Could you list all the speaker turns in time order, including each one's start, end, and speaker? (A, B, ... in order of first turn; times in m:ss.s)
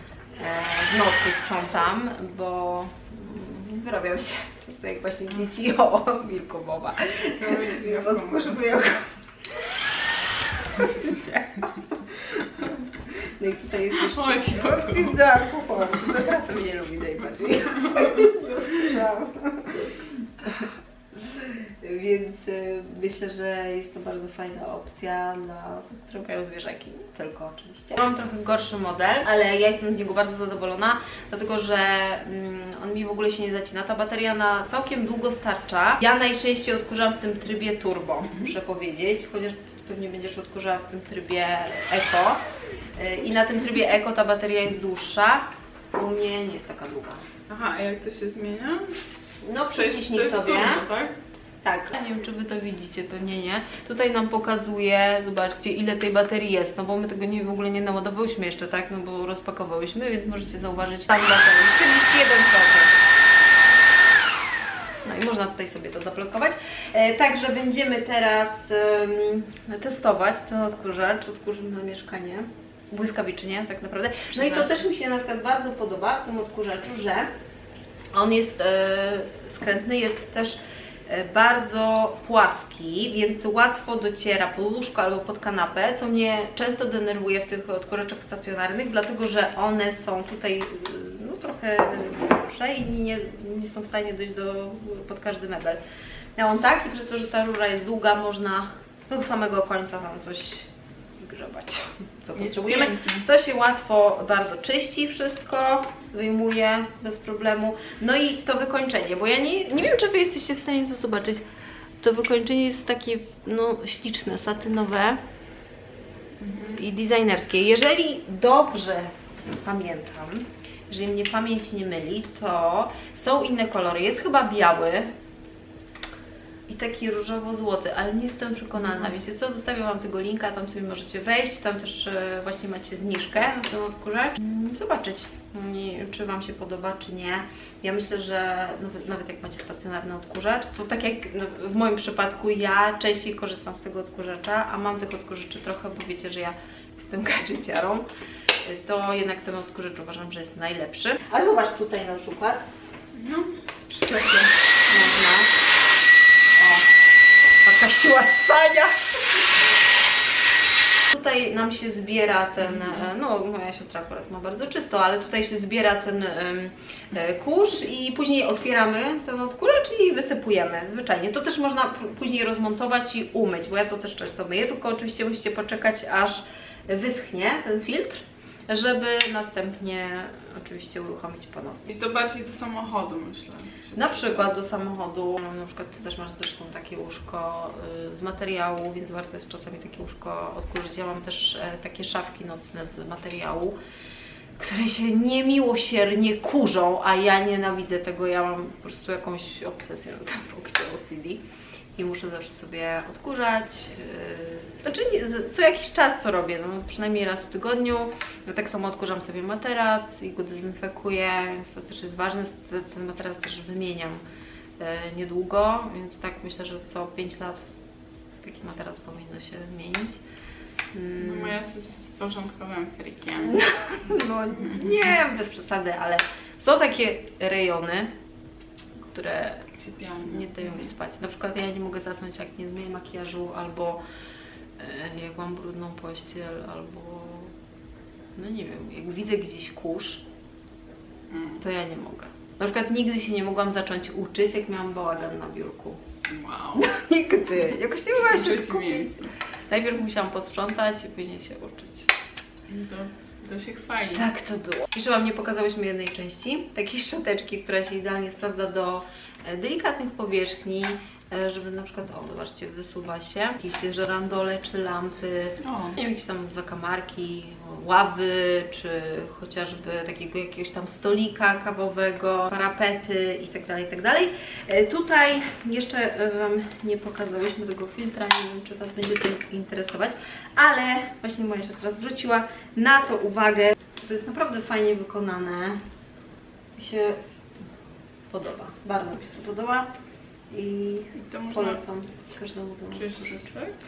0:00.4-0:09.2 A
0:07.4-0:08.7 B
0:10.8-0:11.7 B
0:10.9-0:11.2 A
0:12.3-0:12.6 A
0:13.2-0:19.9 A
0:14.0-0:15.2 B
0:17.7-0:18.0 B
0:21.2-0:42.4 A
0:43.0-0:47.2 A
0:47.5-0:49.0 B
0:49.4-0:50.9 A
0:49.7-0:51.2 B
0:51.6-1:03.0 A
1:05.0-1:17.3 A
1:14.4-1:14.9 B
1:18.1-1:35.8 A
1:36.4-1:51.4 A
1:42.4-1:43.3 B
1:52.0-1:55.2 A
1:56.4-1:56.8 B
1:56.7-2:05.1 A
2:06.7-2:28.0 A
2:28.6-2:32.7 A
2:33.1-2:34.5 B
2:34.9-2:35.5 A
2:36.6-2:36.9 A
2:37.6-2:39.0 A
2:41.1-3:01.9 A
3:01.9-3:04.5 B
3:04.0-3:13.8 A
3:14.6-3:21.4 A
3:22.0-3:34.2 A
3:34.8-3:37.7 A
3:38.4-3:40.2 A
3:40.9-3:41.6 A
3:41.2-3:43.7 B
3:43.4-3:48.1 A
3:49.1-3:54.0 A
3:49.8-3:50.9 B
3:54.8-3:57.5 A
3:58.4-4:00.2 A
4:01.3-4:01.6 B
4:01.6-4:06.0 A
4:06.3-4:06.9 B
4:06.8-4:12.1 A
4:08.1-4:09.3 B
4:12.7-4:14.3 B
4:14.1-4:45.8 A
4:25.6-4:26.0 B
4:46.8-4:47.2 A
4:48.3-4:49.9 A
4:50.5-4:53.3 A
4:51.2-4:51.8 B
4:52.9-4:53.8 B